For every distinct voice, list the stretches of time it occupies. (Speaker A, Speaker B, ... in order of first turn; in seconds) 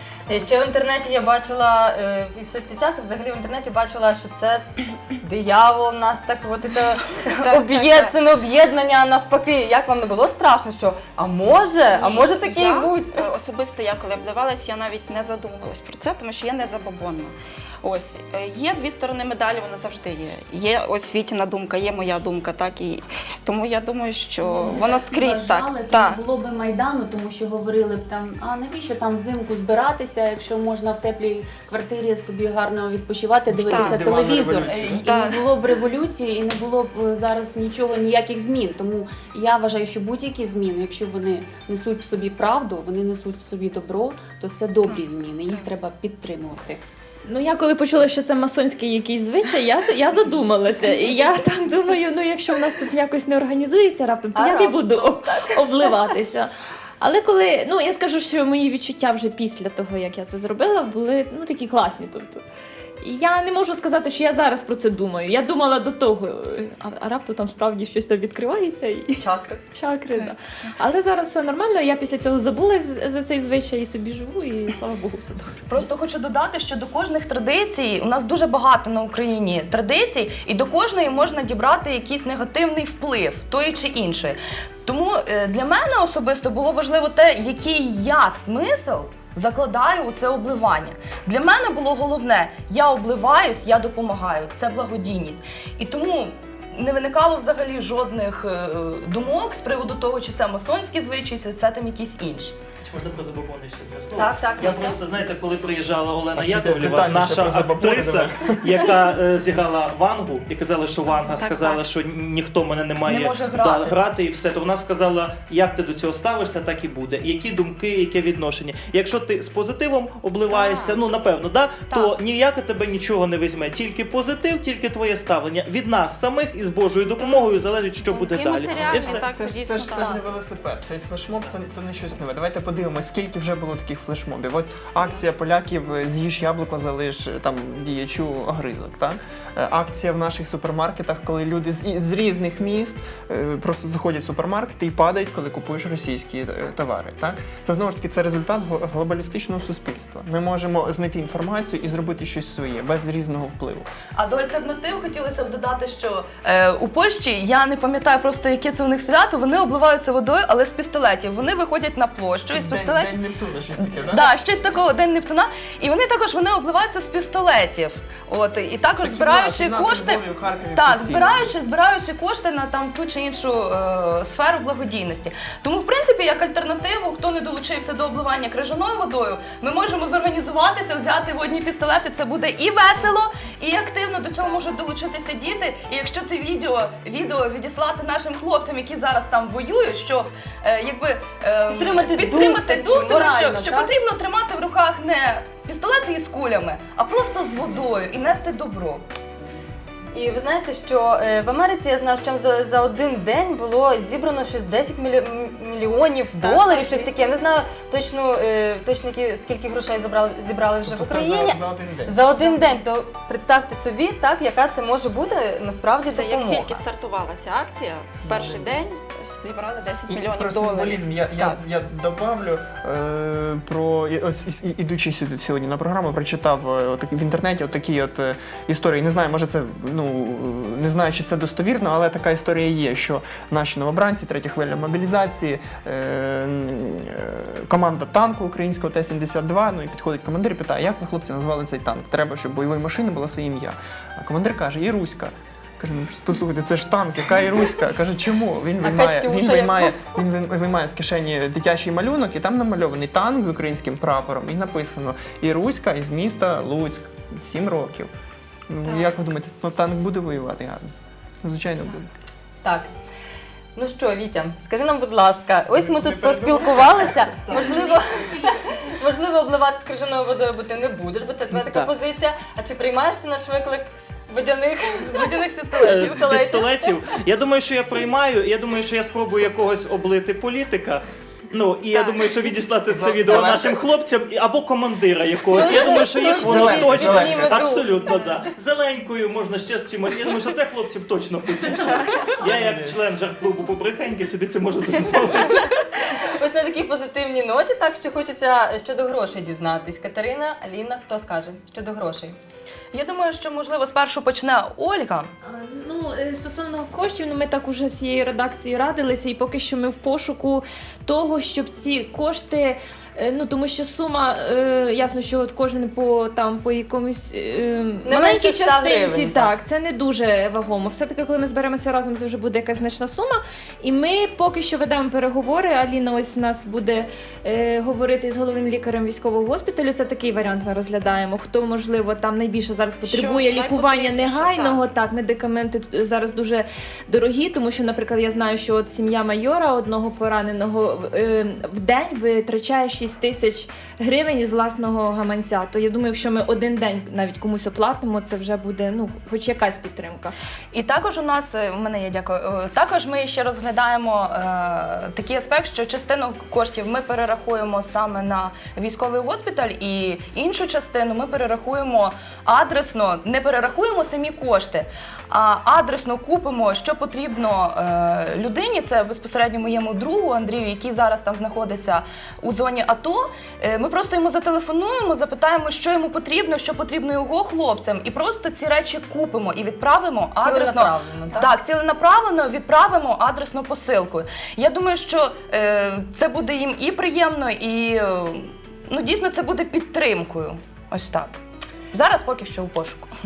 Speaker A: 0.3-13.3, 104.2-105.0, 191.7-193.9, 200.1-216.8, 248.8-250.1, 262.6-262.9, 263.8-277.0, 285.5-288.2, 295.5-302.4, 318.1-319.5, 380.4-381.6
Speaker B: 7.2-8.1, 11.9-26.2, 33.7-34.1, 35.0-35.5, 111.1-111.8, 120.5-121.1, 127.2-130.2, 216.1-221.6, 258.9-259.2, 333.0-334.9
Speaker C: 24.4-46.8, 267.5-268.0
Speaker D: 33.5-35.0, 106.3-108.9, 128.7-153.9, 162.5-164.3, 169.0-171.5, 210.8-212.2, 218.2-218.8, 220.1-258.1, 258.7-262.1, 265.8-267.6, 282.9-283.8, 285.6-287.6, 292.4-293.0
Speaker E: 34.5-35.0, 54.4-55.5, 75.7-102.5, 113.0-114.0, 154.2-163.2, 163.8-199.0, 206.4-206.7, 275.0-276.6, 302.9-305.3, 350.7-391.3, 391.9-393.1
Speaker F: 47.3-62.4, 63.0-75.8, 305.5-350.4
Speaker G: 102.9-129.3, 271.5-271.9, 275.8-295.7